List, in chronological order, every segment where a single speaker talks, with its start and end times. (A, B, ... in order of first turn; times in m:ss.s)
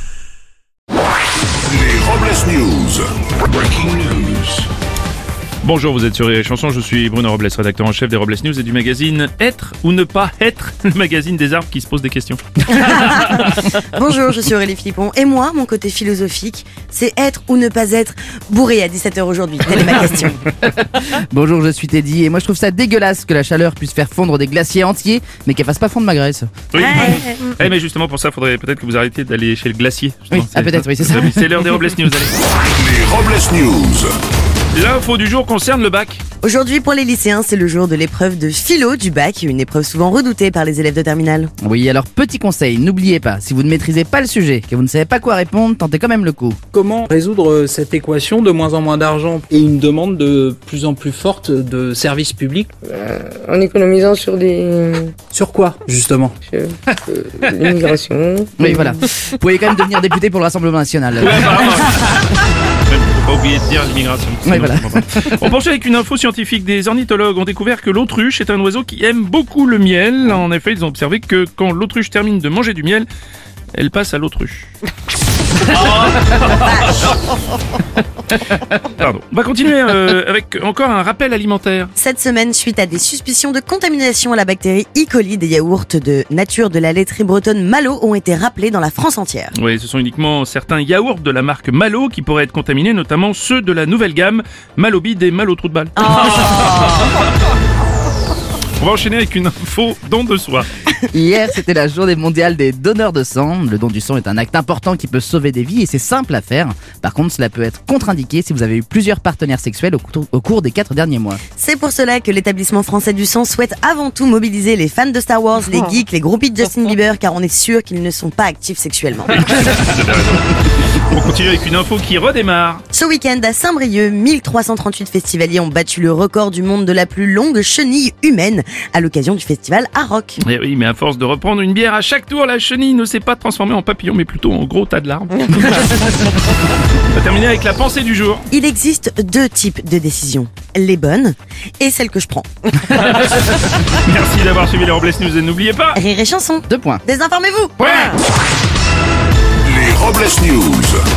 0:01.7-0:04.6 A
0:05.6-0:13.4 B
0:12.7-0:20.4 C
0:20.6-0:26.5 D
0:26.7-0:32.4 B
0:26.7-0:27.5 C
0:30.3-0:31.3 D
0:32.8-0:34.1 A
0:34.7-0:36.2 B
0:36.4-0:41.5 C
0:41.6-0:46.6 D
0:46.7-0:52.7 E
0:52.8-0:55.2 F
0:55.3-0:56.4 E
0:56.4-0:59.0 F
0:58.6-1:01.7 D
1:01.2-1:13.1 B
1:04.4-1:05.3 D
1:13.7-1:14.7 B
1:15.6-1:16.8 B
1:16.4-1:17.2 C
1:18.8-1:21.9 B
1:22.0-1:29.5 C
1:29.5-1:37.2 B
1:36.0-1:37.0 C
1:38.8-1:40.7 B
1:41.1-1:51.4 D
1:51.6-1:59.3 C
1:59.3-2:02.8 B
2:02.9-2:10.4 C
2:10.4-2:18.5 B
2:18.5-2:22.5 C
2:22.8-2:26.0 B
2:25.9-2:28.1 C
2:26.7-2:27.0 D
2:27.8-2:28.2 B
2:29.6-2:31.0 A